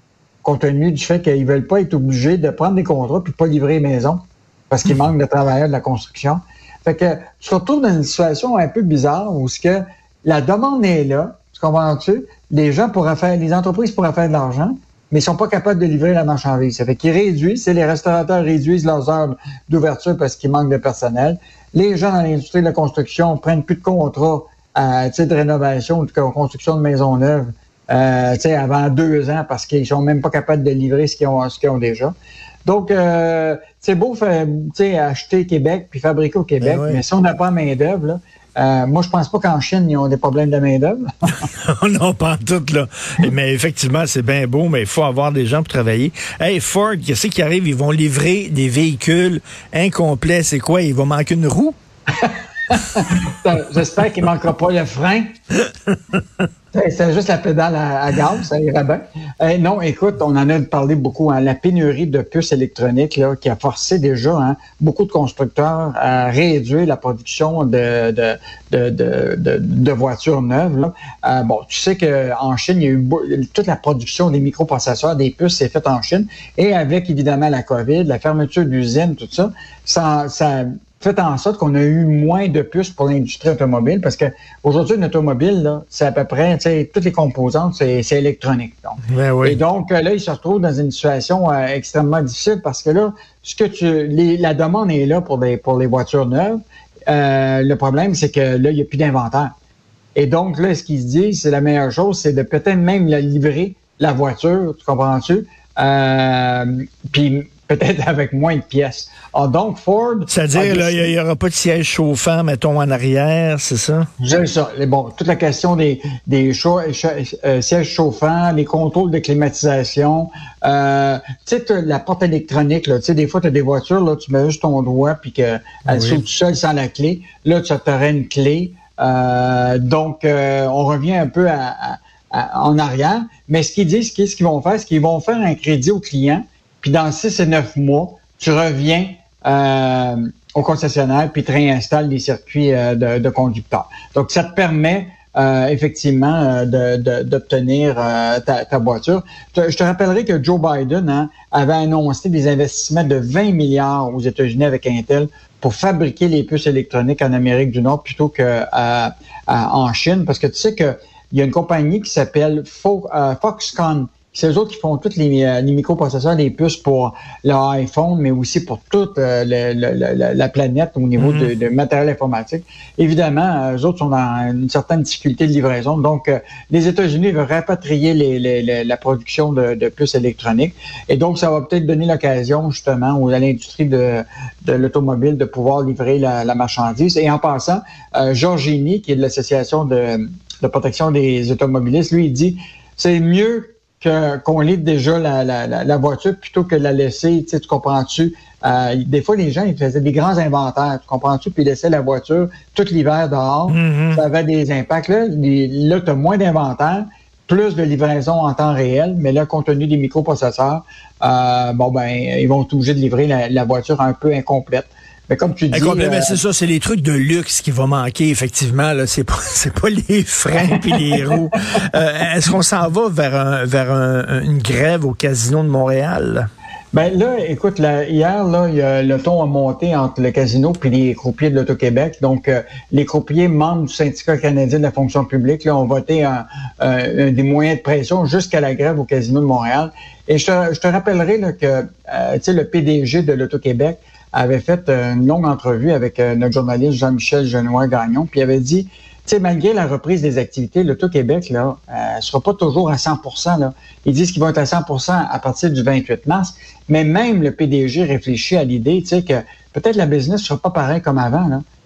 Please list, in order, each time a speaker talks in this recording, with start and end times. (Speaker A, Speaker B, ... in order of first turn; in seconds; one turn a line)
Speaker A: 0.4-32.1
Speaker A: 32.6-41.0
Speaker B: 36.6-37.0
Speaker B: 41.5-51.7
Speaker A: 52.2-55.3
Speaker B: 55.9-56.2
Speaker A: 56.7-99.5
Speaker B: 89.1-89.6
Speaker A: 100.1-111.1
Speaker B: 110.3-114.1
Speaker A: 114.2-216.4
Speaker B: 125.9-126.2
Speaker B: 171.2-171.5
Speaker B: 203.7-204.2
Speaker B: 215.7-226.5
Speaker A: 220.7-221.4
Speaker A: 226.9-261.6